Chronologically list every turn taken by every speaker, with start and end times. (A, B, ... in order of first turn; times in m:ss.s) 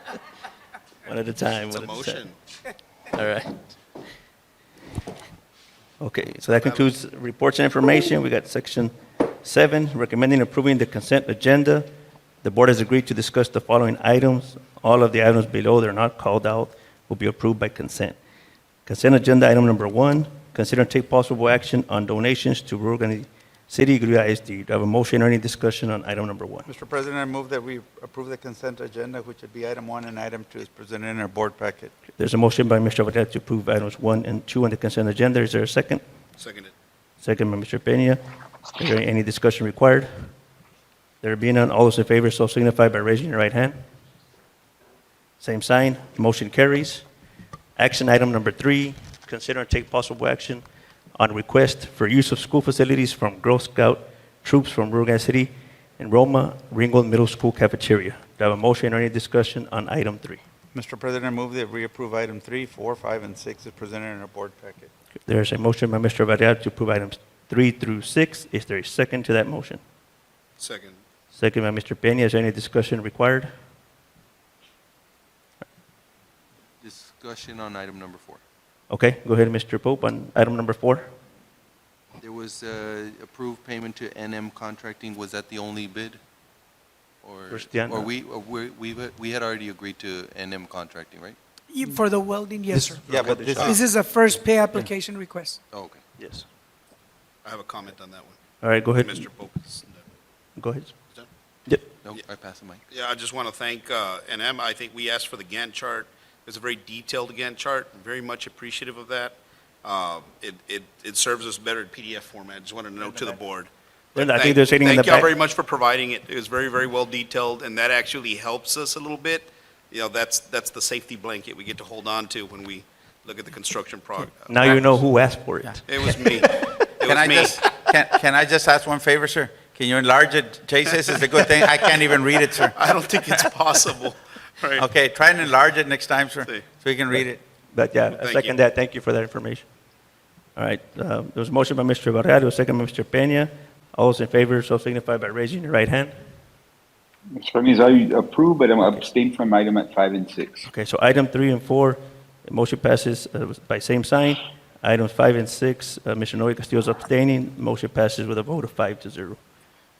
0:01.0-0:02.2 A
0:01.7-0:02.3 B
0:03.1-0:03.6 A
0:06.0-0:11.8 A
0:06.4-0:06.9 B
0:12.4-0:18.2 A
0:18.8-0:26.6 A
0:26.6-0:31.9 C
0:32.2-0:36.0 A
0:36.4-0:36.7 B
0:37.2-0:38.2 A
0:38.8-0:40.1 A
0:41.2-0:43.8 A
0:45.4-0:47.0 A
0:47.8-0:50.6 A
0:51.2-1:00.4 A
1:00.7-1:04.9 C
1:05.2-1:09.8 A
1:10.6-1:11.0 B
1:11.3-1:13.5 A
1:16.8-1:18.4 D
1:18.9-1:21.1 A
1:22.2-1:26.2 D
1:27.2-1:31.4 D
1:27.5-1:28.1 A
1:31.7-1:35.6 E
1:32.7-1:33.8 A
1:33.1-1:33.8 C
1:35.7-1:36.0 D
1:36.2-1:36.4 A
1:37.4-1:38.4 B
1:38.6-1:39.3 A
1:38.9-1:40.0 B
1:40.6-1:40.9 A
1:42.0-1:42.8 D
1:42.9-2:05.0 B
1:54.2-1:55.3 A
2:04.5-2:06.3 A
2:05.9-2:07.6 B
2:07.0-2:13.4 C
2:12.7-2:14.8 B
2:14.8-2:17.4 C
2:17.1-2:19.6 A
2:18.2-2:18.5 B
2:20.6-2:26.2 A
2:27.3-2:30.7 F
2:30.7-2:39.4 A